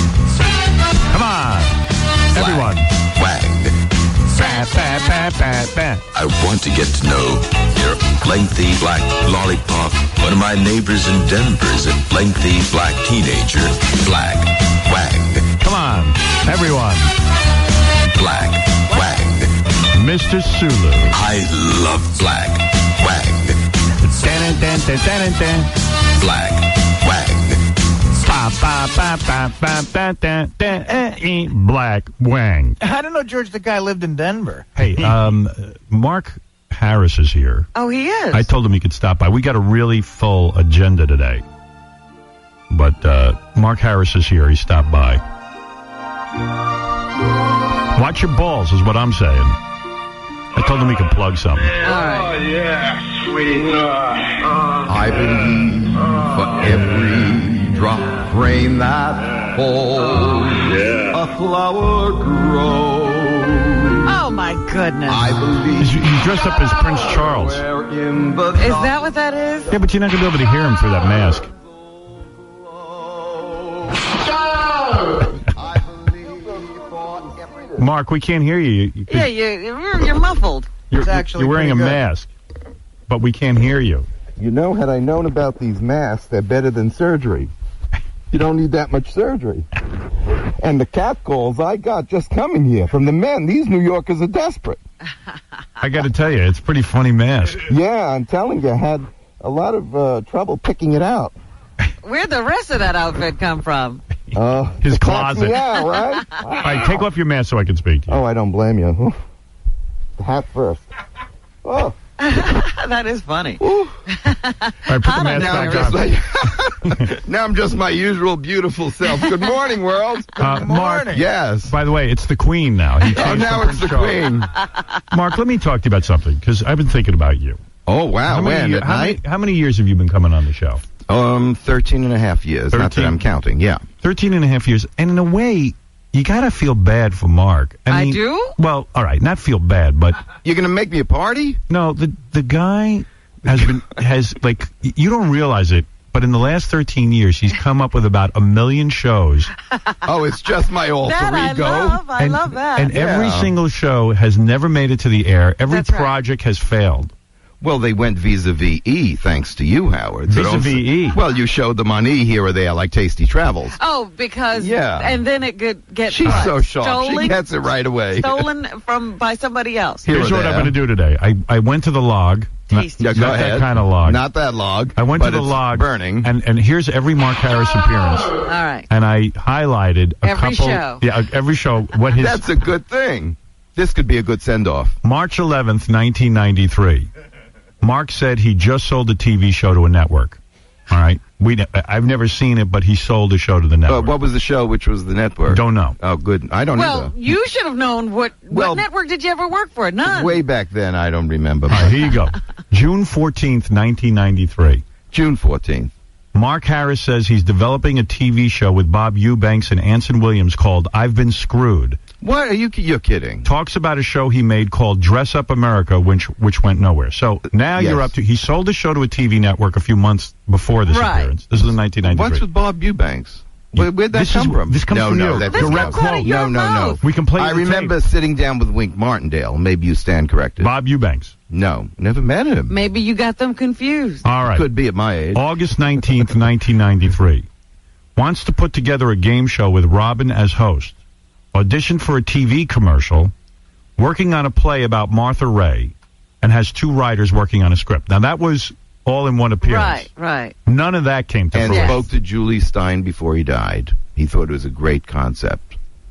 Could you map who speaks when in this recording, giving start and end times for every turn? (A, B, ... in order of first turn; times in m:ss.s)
0:01.1-0:01.8 A
0:02.3-0:02.9 A
0:02.3-0:03.8 B
0:04.3-0:06.0 A
0:04.6-0:05.0 C
0:06.1-0:15.6 B
0:15.6-0:17.1 A
0:18.1-0:19.5 B
0:19.9-0:21.1 A
0:21.1-0:24.5 B
0:24.0-0:25.7 A
0:26.2-0:27.6 B
0:28.2-0:32.8 A
0:32.8-0:35.1 D
0:34.8-0:37.7 A
0:37.7-0:38.5 C
0:38.3-0:41.4 A
0:42.7-0:45.2 A
0:47.9-0:49.6 A
0:50.5-0:51.8 A
0:51.8-0:52.4 C
0:54.8-1:04.2 E
1:04.0-1:05.3 C
1:05.0-1:09.1 E
1:05.8-1:07.6 A
1:08.6-1:09.7 C
1:09.7-1:11.5 A
1:12.1-1:14.2 E
1:15.5-1:17.9 E
1:17.8-1:19.3 A
1:19.1-1:20.7 C
1:20.9-1:22.3 A
1:20.9-1:22.0 D
1:23.1-1:24.1 A
1:24.4-1:27.5 E
1:28.3-1:29.7 E
1:30.6-1:34.8 E
1:35.8-1:37.7 A
1:37.7-1:41.4 E
1:42.0-1:44.0 C
1:44.3-1:47.0 E
1:44.8-1:45.6 A
1:46.6-1:48.2 A
1:48.1-1:49.2 E
1:50.2-1:50.9 E
1:51.6-1:52.0 E
1:52.2-1:56.1 C
1:53.6-1:54.0 E
1:54.9-1:56.0 A
1:55.3-2:00.4 E
1:56.8-1:57.1 A
2:00.4-2:04.2 A
2:00.4-2:01.2 D
2:01.0-2:01.7 E
2:03.1-2:04.5 E
2:05.1-2:07.6 A
2:07.9-2:09.2 E
2:08.3-2:10.8 A
2:11.1-2:13.8 E
2:12.7-2:13.2 A
2:14.0-2:20.2 A
2:17.9-2:18.5 C
2:20.4-2:21.6 E
2:21.7-2:29.5 A
2:30.0-2:32.0 E
2:31.0-2:32.9 C
2:32.2-2:37.1 A
2:32.9-2:33.6 E
2:35.7-2:36.1 C
2:37.6-2:43.8 E
2:40.3-2:41.2 A
2:43.8-2:47.4 C
2:44.6-2:45.2 E
2:46.1-2:48.5 E
2:46.3-2:46.5 A
2:48.1-2:50.1 C
2:50.1-2:50.8 E
2:50.1-2:54.3 A
2:52.7-2:53.4 C
2:53.0-2:56.3 E
2:55.0-2:58.3 A
2:58.4-2:58.9 C
2:58.9-3:02.5 A
3:00.2-3:01.0 C
3:02.1-3:05.0 E
3:05.0-3:07.1 A
3:07.8-3:14.1 A
3:13.9-3:17.2 E
3:15.5-3:16.0 A
3:16.8-3:20.4 C
3:18.5-3:18.8 E
3:20.0-3:22.1 E
3:21.7-3:24.8 A
3:25.1-3:25.9 E
3:26.3-3:32.0 A
3:32.2-3:33.5 E
3:33.4-3:42.4 A
3:37.7-3:38.1 E
3:40.9-3:41.3 C
3:42.0-3:50.7 E
3:43.7-3:46.3 A
3:45.5-3:47.0 C
3:47.0-3:48.0 A
3:50.6-3:51.3 A
3:51.5-3:52.7 E
3:52.7-3:54.2 C
3:54.2-3:54.7 A
3:54.5-3:55.4 E
3:55.3-3:57.5 A
3:58.2-4:01.0 A
4:01.5-4:03.3 A
4:04.0-4:10.1 A
4:09.6-4:10.6 C
4:10.7-4:12.1 A
4:11.5-4:15.8 E
4:11.7-4:12.0 C